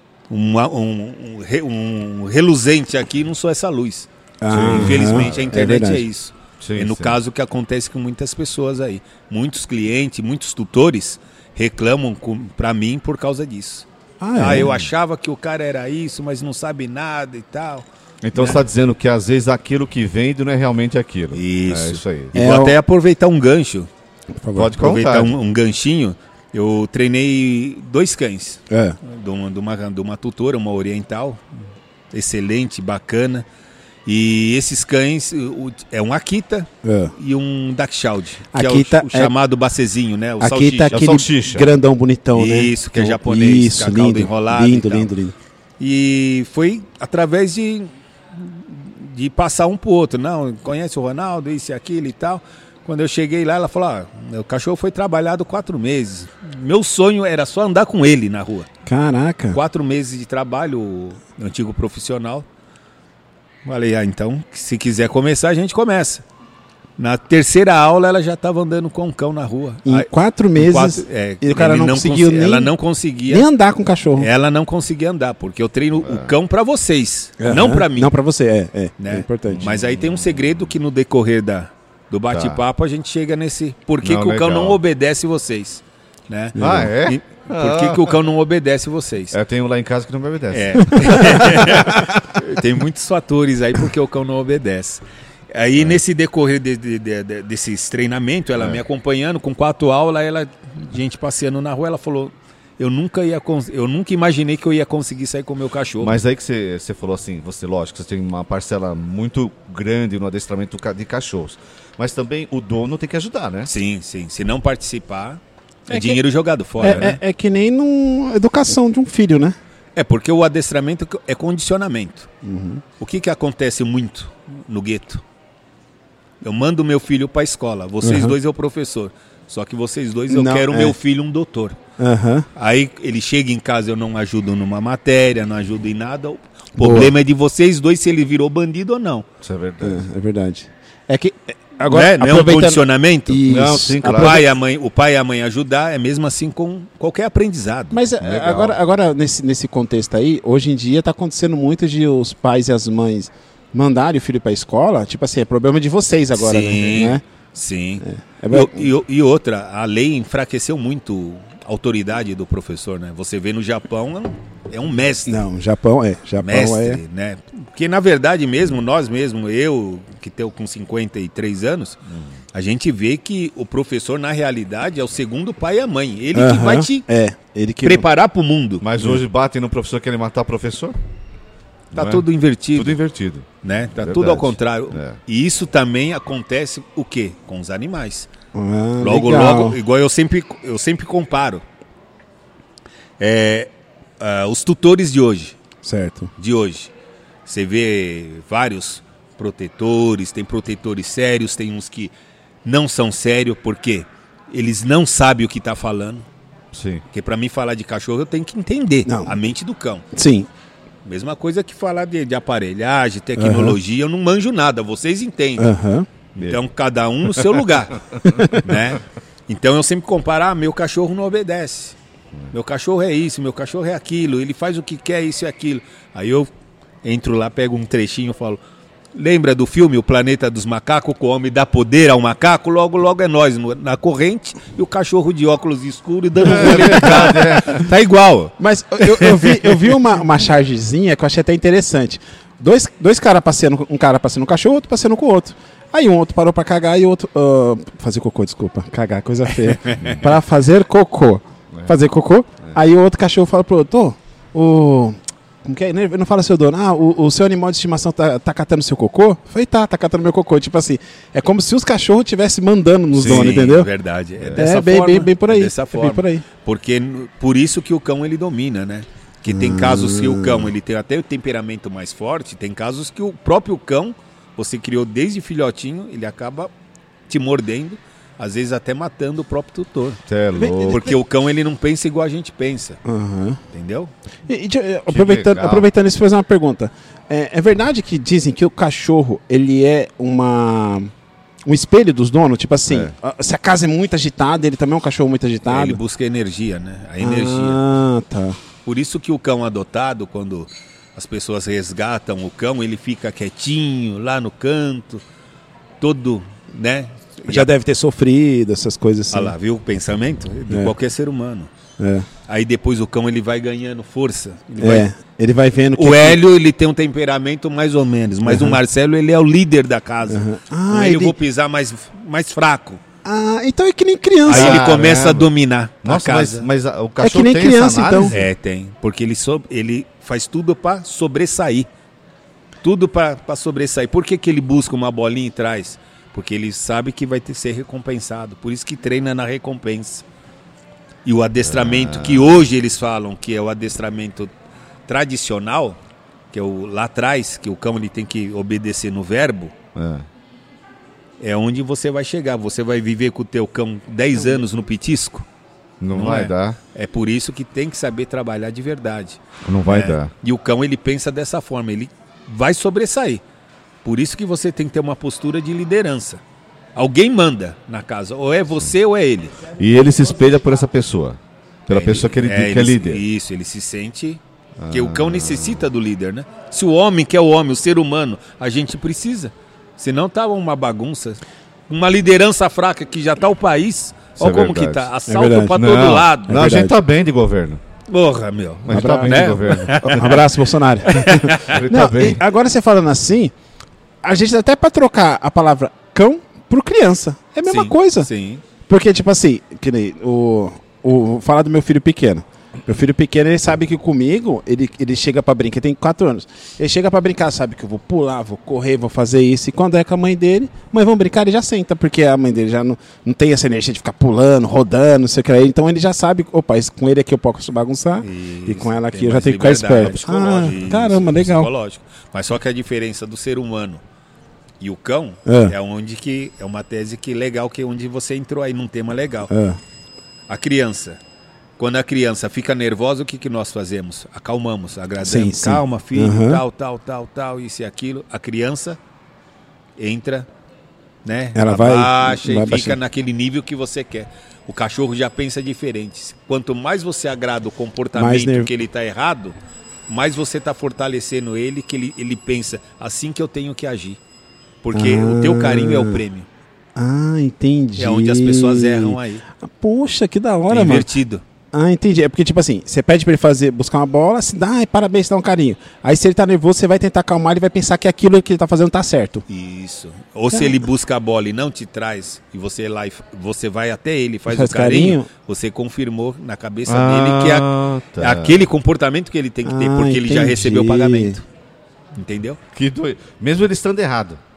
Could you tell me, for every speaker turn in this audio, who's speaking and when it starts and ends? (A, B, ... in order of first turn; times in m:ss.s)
0:00.3-0:18.6 A
0:04.4-0:06.0 B
0:04.5-0:05.6 C
0:06.6-0:07.2 C
0:14.2-0:14.7 B
0:18.2-0:22.3 C
0:21.3-0:23.9 A
0:22.3-0:22.8 B
0:24.4-0:24.8 B
0:24.5-0:25.4 C
0:24.8-0:31.4 A
0:28.7-0:29.0 B
0:32.1-0:33.4 A
0:34.0-0:41.0 A
0:36.8-0:37.1 B
0:38.5-0:39.3 B
0:40.4-0:45.3 B
0:40.9-0:41.7 C
0:42.3-0:45.1 A
0:45.8-0:58.7 A
0:58.8-0:59.6 B
0:59.5-1:02.4 A
1:03.6-1:06.2 A
1:07.0-1:13.4 A
1:09.8-1:12.7 B
1:13.3-1:14.3 B
1:14.2-1:18.2 A
1:16.0-1:16.4 C
1:17.4-1:19.6 B
1:19.0-1:29.3 A
1:19.5-1:20.7 C
1:22.3-1:22.6 C
1:24.0-1:24.8 C
1:26.5-1:26.9 B
1:26.6-1:28.2 C
1:29.3-1:32.1 C
1:30.5-1:35.0 A
1:31.2-1:31.7 B
1:35.5-1:46.2 A
1:46.0-1:53.7 C
1:53.6-1:57.2 A
1:55.9-1:56.2 B
1:56.8-1:59.6 B
2:00.0-2:02.3 A
2:02.4-2:02.8 B
2:03.0-2:05.2 A
2:06.4-2:11.8 A
2:08.0-2:08.3 B
2:10.3-2:11.0 B
2:12.0-2:12.5 B
2:12.5-2:19.3 A
2:16.8-2:17.1 B
2:19.4-2:20.0 C
2:19.8-2:24.4 B
2:21.9-2:23.4 A
2:23.4-2:24.4 C
2:24.0-2:28.0 A
2:27.9-2:37.2 B
2:28.2-2:28.8 C
2:36.3-2:45.4 A
2:38.0-2:38.9 B
2:45.2-2:47.0 B
2:46.4-2:52.0 A
2:52.5-2:57.0 A
2:56.3-2:58.0 B
2:57.8-2:58.8 A
2:58.8-3:01.0 C
3:01.9-3:05.2 C
3:01.9-3:03.0 A
3:03.6-3:08.3 A
3:08.5-3:09.8 B
3:09.0-3:11.6 A
3:13.2-3:15.6 A
3:15.8-3:16.3 B
3:16.4-3:16.9 A
3:17.4-3:22.1 A
3:22.6-3:26.2 A
3:26.7-3:27.0 C
3:27.1-3:30.0 A
3:29.1-3:29.3 B
3:30.1-3:30.5 B
3:31.0-3:35.7 A
3:33.4-3:33.8 B
3:35.6-3:36.1 B
3:36.4-3:42.0 A
3:38.2-3:38.7 B
3:38.3-3:38.6 C
3:42.5-3:46.5 A
3:47.0-3:48.6 A
3:49.1-4:00.0 A
3:56.4-3:57.8 C
3:56.5-3:57.3 B
3:58.6-4:23.9 B
4:09.6-4:10.2 A
4:23.1-4:23.6 C
4:23.2-4:36.7 A
4:24.4-4:24.6 C
4:24.6-4:26.4 B
4:29.4-4:30.7 B
4:37.3-4:40.2 A
4:40.3-4:41.1 C
4:40.5-4:41.1 B
4:40.9-4:43.0 A
4:43.0-4:43.6 B
4:43.7-4:44.1 A
4:44.5-4:51.1 B
4:45.1-4:45.9 C
4:51.6-4:56.0 B
4:55.6-4:57.8 A
4:57.2-4:58.6 B
4:58.8-5:05.2 A
5:06.0-5:07.7 A
5:07.4-5:09.5 B
5:09.3-5:11.7 A
5:12.0-5:12.3 B
5:12.5-5:15.1 A
5:14.8-5:16.4 B
5:16.0-5:23.0 A
5:18.4-5:18.8 B
5:20.3-5:21.3 B
5:23.2-5:24.8 B
5:24.4-5:26.6 A
5:24.5-5:25.5 C
5:26.0-5:28.5 C
5:27.2-5:28.3 B
5:28.3-5:31.9 A
5:32.8-5:40.2 A
5:41.2-5:44.5 A
5:41.6-5:42.6 C
5:45.1-5:46.0 A
5:46.5-5:49.7 A
5:49.9-5:50.2 C
5:51.4-5:55.4 A
5:56.0-5:56.8 C
5:56.1-6:03.4 A
5:59.6-6:00.3 C
6:04.0-6:06.4 A
6:07.0-6:09.5 A
6:09.8-6:13.2 C
6:11.9-6:14.4 A
6:14.8-6:15.9 C
6:14.9-6:26.6 A
6:24.4-6:25.1 C
6:25.3-6:25.8 B
6:25.7-6:27.8 C
6:26.5-6:26.9 B
6:28.1-6:30.4 A
6:28.8-6:30.4 C
6:28.9-6:33.5 B
6:31.1-6:31.8 A
6:31.1-6:32.4 C
6:34.2-6:38.3 B
6:37.6-6:38.6 A
6:38.8-7:01.7 B
6:58.2-7:04.0 A
7:04.8-7:09.5 A
7:05.4-7:05.7 B
7:09.5-7:09.8 B
7:10.5-7:11.2 A
7:11.8-7:19.0 A
7:15.2-7:16.6 B
7:20.0-7:20.5 A
7:21.2-7:29.6 A
7:21.5-7:23.0 B
7:28.1-7:28.7 B
7:30.1-7:34.2 A
7:34.8-7:36.5 A
7:34.9-7:36.2 B
7:37.0-7:41.1 B
7:38.0-7:39.4 A
7:40.7-7:41.4 A
7:41.7-7:49.4 B
7:49.5-7:57.7 A
7:54.5-7:55.3 B
7:56.8-7:58.7 C
7:58.2-8:01.4 A
7:59.6-8:01.4 B
8:02.1-8:02.6 A
8:02.7-8:04.4 C